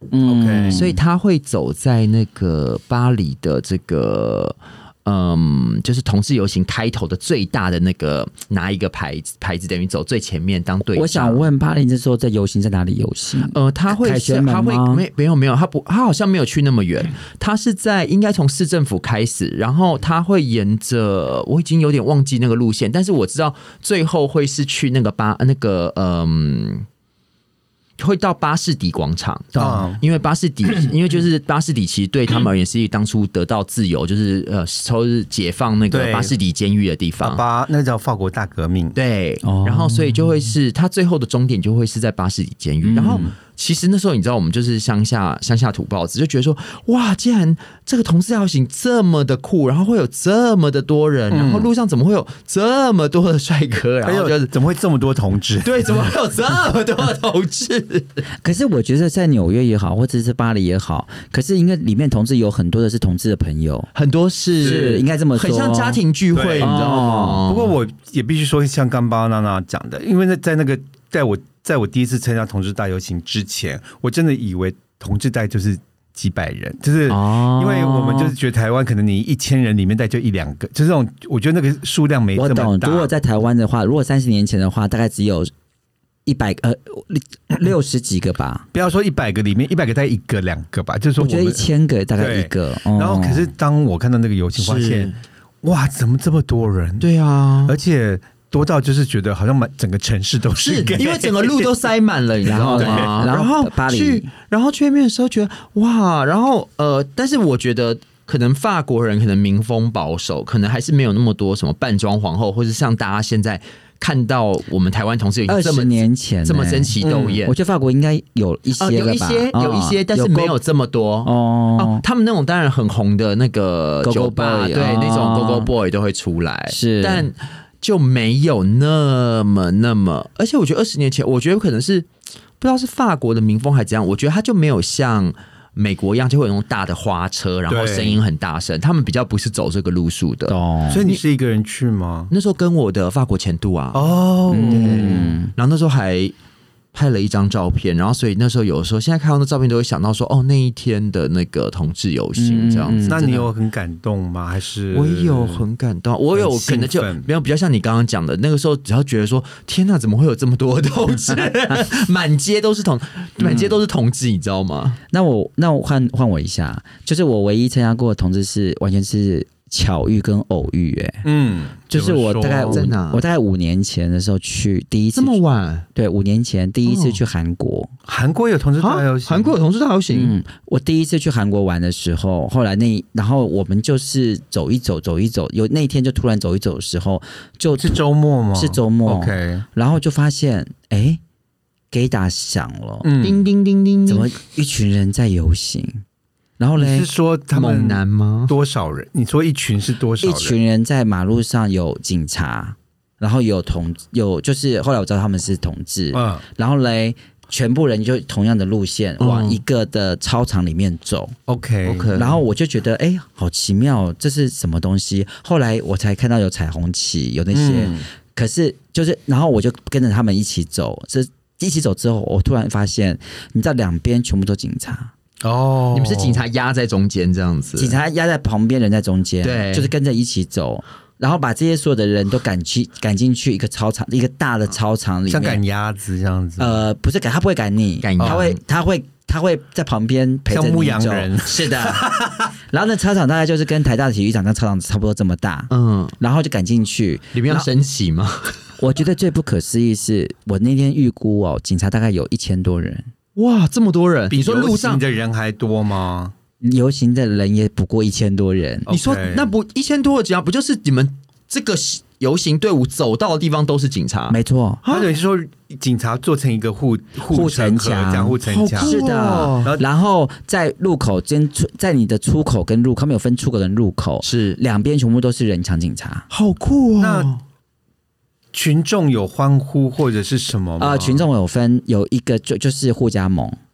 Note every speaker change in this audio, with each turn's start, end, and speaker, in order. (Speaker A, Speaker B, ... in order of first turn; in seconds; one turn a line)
Speaker A: 0.1-1.0
Speaker B: 0.2-0.9
Speaker C: 0.7-11.5
Speaker A: 10.9-15.1
Speaker C: 13.5-26.9
Speaker C: 28.0-37.4
Speaker B: 29.6-30.0
Speaker B: 35.9-36.4
Speaker B: 37.2-39.0
Speaker C: 39.0-54.5
Speaker A: 39.4-40.3
Speaker A: 42.8-43.3
Speaker B: 51.3-51.7
Speaker B: 54.0-56.1
Speaker C: 55.6-58.2
Speaker A: 58.4-63.9
Speaker C: 64.0-67.8
Speaker A: 64.6-66.0
Speaker B: 64.6-64.9
Speaker B: 66.3-83.1
Speaker A: 66.6-67.4
Speaker A: 77.1-78.3
Speaker A: 82.3-85.5
Speaker A: 86.3-88.7
Speaker B: 88.7-95.1
Speaker A: 91.2-93.5
Speaker C: 94.6-95.2
Speaker B: 95.6-97.1
Speaker C: 97.0-97.8
Speaker B: 97.7-101.7
Speaker C: 100.6-117.5
Speaker A: 102.5-104.3
Speaker B: 102.6-103.3
Speaker A: 115.5-120.6
Speaker B: 117.0-117.4
Speaker C: 118.8-132.1
Speaker A: 121.2-122.0
Speaker A: 124.0-125.7
Speaker A: 126.7-127.3
Speaker C: 132.6-141.2
Speaker B: 137.7-138.2
Speaker A: 140.5-141.0
Speaker B: 140.9-142.3
Speaker C: 142.3-146.3
Speaker B: 143.9-145.3
Speaker A: 144.5-145.5
Speaker C: 146.9-153.4
Speaker A: 152.4-153.4
Speaker B: 153.0-155.7
Speaker C: 154.9-165.0
Speaker B: 156.3-157.3
Speaker B: 163.4-163.7
Speaker A: 165.1-171.2
Speaker B: 171.2-172.9
Speaker A: 171.9-175.4
Speaker C: 172.7-173.2
Speaker C: 175.2-175.9
Speaker A: 175.9-177.9
Speaker C: 176.9-177.2
Speaker B: 178.1-179.5
Speaker C: 178.8-180.4
Speaker A: 180.1-188.0
Speaker B: 187.8-189.7
Speaker A: 188.5-191.2
Speaker A: 191.9-193.1
Speaker B: 193.0-193.4
Speaker C: 193.2-194.3
Speaker A: 194.1-196.0
Speaker A: 196.6-197.1
Speaker B: 196.8-200.6
Speaker C: 197.5-198.5
Speaker A: 200.2-211.3
Speaker B: 206.1-206.4
Speaker C: 209.2-209.6
Speaker B: 211.5-212.2
Speaker C: 211.8-212.4
Speaker A: 212.2-225.1
Speaker B: 217.5-218.1
Speaker B: 225.4-226.4
Speaker C: 225.9-228.0
Speaker A: 227.8-235.6
Speaker C: 229.4-229.9
Speaker B: 235.3-236.8
Speaker A: 236.6-242.1
Speaker C: 238.0-238.6
Speaker B: 238.2-238.4
Speaker B: 240.5-242.5
Speaker A: 242.7-247.7
Speaker C: 245.7-246.2
Speaker C: 247.3-248.6
Speaker A: 248.8-253.1
Speaker C: 253.4-255.0
Speaker B: 254.3-256.3
Speaker A: 256.6-258.9
Speaker B: 258.9-259.5
Speaker C: 258.9-265.1
Speaker A: 264.3-264.8
Speaker B: 264.9-269.0
Speaker A: 267.3-276.3
Speaker C: 268.4-269.7
Speaker B: 269.6-269.9
Speaker C: 274.2-274.6
Speaker C: 276.3-277.4
Speaker B: 277.0-277.3
Speaker B: 278.5-281.3
Speaker A: 280.8-283.6